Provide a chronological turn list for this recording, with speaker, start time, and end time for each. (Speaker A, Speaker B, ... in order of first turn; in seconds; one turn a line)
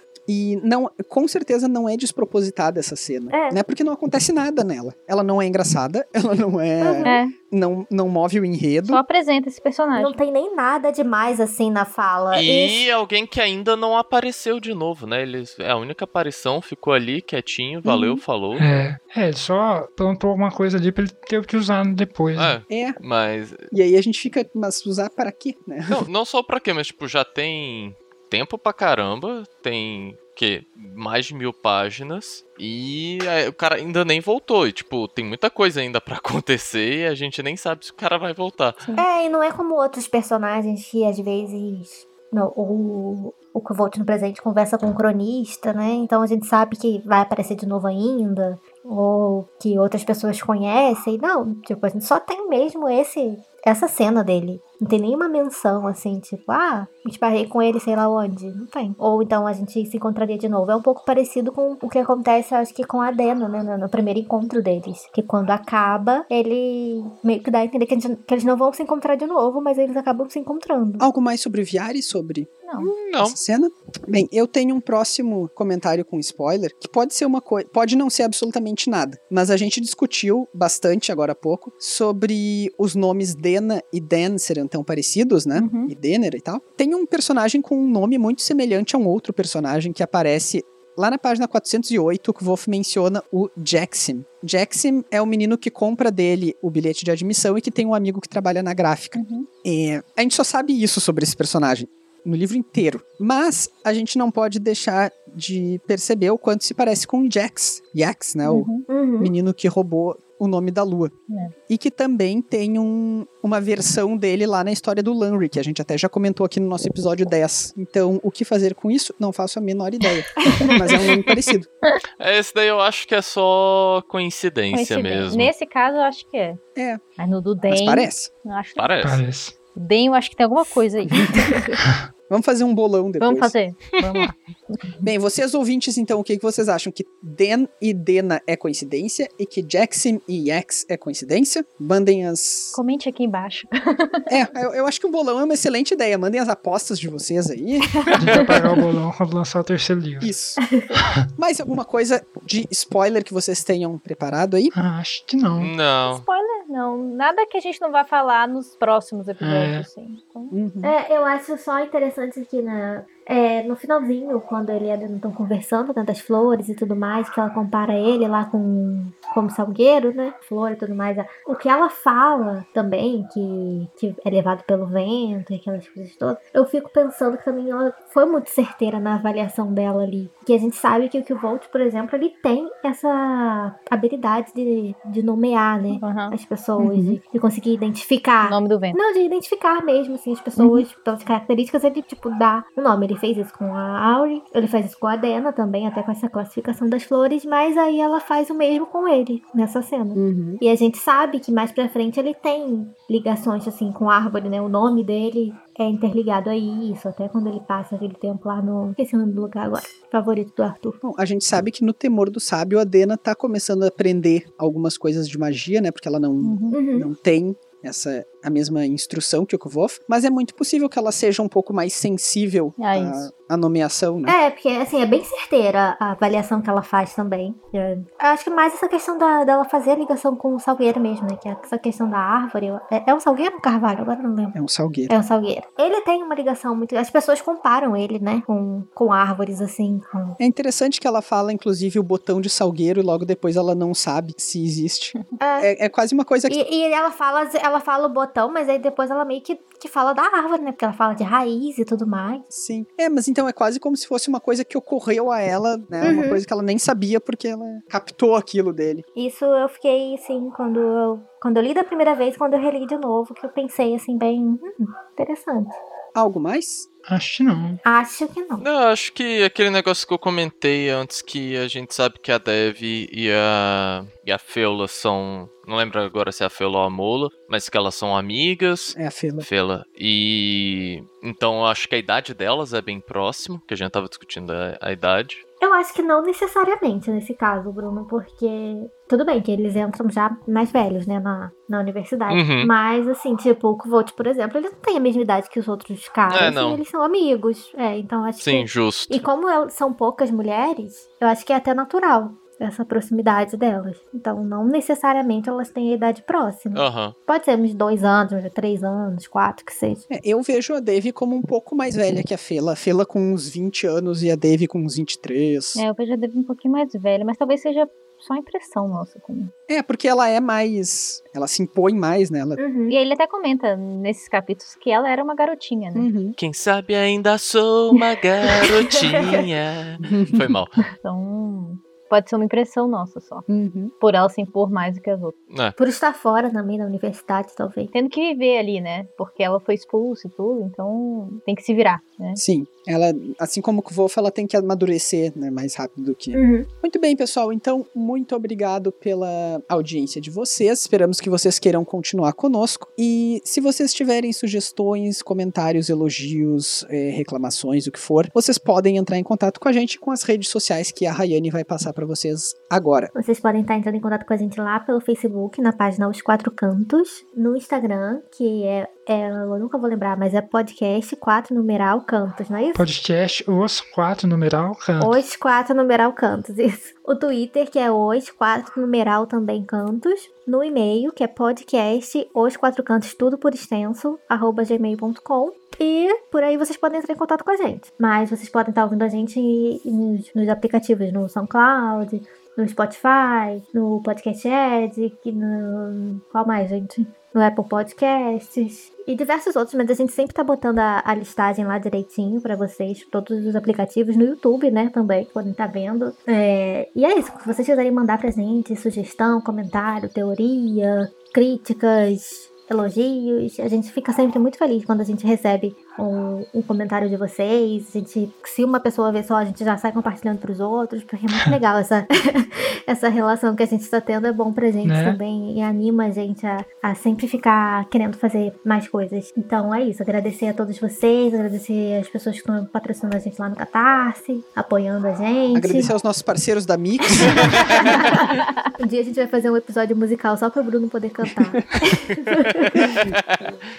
Speaker A: 0.3-9.0
Speaker B: 3.3-3.6
Speaker B: 6.8-7.2
Speaker C: 7.0-7.3
Speaker C: 8.8-10.2
Speaker B: 10.0-12.9
Speaker D: 12.3-18.6
Speaker A: 17.8-18.2
Speaker E: 18.6-22.6
Speaker D: 22.4-23.7
Speaker A: 22.7-23.0
Speaker A: 23.7-26.1
Speaker D: 25.9-38.8
Speaker B: 39.0-71.1
Speaker A: 71.0-72.5
Speaker C: 72.7-72.9
Speaker D: 72.8-73.4
Speaker A: 73.2-111.1
Speaker C: 85.5-85.9
Speaker C: 99.2-99.5
Speaker C: 108.5-108.8
Speaker B: 108.9-109.3
Speaker C: 111.3-111.5
Speaker A: 111.7-121.7
Speaker D: 120.7-121.3
Speaker D: 122.2-125.5
Speaker C: 124.7-126.6
Speaker A: 126.8-127.0
Speaker C: 127.2-128.9
Speaker A: 127.7-128.3
Speaker D: 128.8-129.2
Speaker E: 129.0-129.6
Speaker C: 129.8-131.8
Speaker A: 132.3-133.5
Speaker C: 133.2-134.9
Speaker A: 135.0-142.8
Speaker C: 142.7-144.3
Speaker A: 144.3-148.1
Speaker E: 148.2-150.3
Speaker A: 150.2-150.6
Speaker B: 150.6-151.0
Speaker E: 150.9-151.3
Speaker A: 151.4-154.7
Speaker E: 154.7-155.7
Speaker D: 155.6-156.2
Speaker C: 156.1-160.6
Speaker E: 159.4-159.9
Speaker A: 160.5-160.9
Speaker B: 160.8-211.0
Speaker C: 186.0-186.4
Speaker A: 186.8-187.2
Speaker C: 188.4-189.0
Speaker A: 190.6-190.9
Speaker A: 200.2-200.6
Speaker A: 211.0-224.4
Speaker C: 216.4-216.8
Speaker B: 216.7-217.1
Speaker C: 222.8-223.3
Speaker B: 224.3-234.6
Speaker A: 234.5-235.2
Speaker B: 235.1-240.4
Speaker A: 240.4-246.6
Speaker B: 245.4-245.7
Speaker B: 246.5-252.5
Speaker A: 252.5-259.1
Speaker B: 256.0-256.4
Speaker B: 259.2-265.8
Speaker A: 266.1-266.9
Speaker E: 267.1-267.8
Speaker B: 267.9-268.6
Speaker D: 268.6-285.4
Speaker A: 278.9-279.5
Speaker B: 285.6-310.1
Speaker D: 292.3-292.7
Speaker D: 296.3-296.8
Speaker D: 298.4-299.2
Speaker D: 306.7-307.1
Speaker A: 310.1-315.8
Speaker C: 315.8-319.5
Speaker A: 319.7-322.6
Speaker B: 322.6-323.0
Speaker C: 322.9-326.1
Speaker A: 325.9-326.4
Speaker D: 326.4-330.8
Speaker A: 330.0-330.5
Speaker C: 331.0-333.5
Speaker A: 333.5-333.9
Speaker C: 334.0-335.4
Speaker D: 335.5-335.8
Speaker B: 335.8-337.9
Speaker C: 337.9-342.4
Speaker A: 342.4-363.1
Speaker B: 346.3-346.7
Speaker B: 363.1-372.9
Speaker E: 372.8-375.2
Speaker B: 375.0-435.9
Speaker E: 424.8-425.2
Speaker A: 435.5-438.1
Speaker B: 437.6-443.0
Speaker A: 442.8-443.1
Speaker D: 443.1-443.5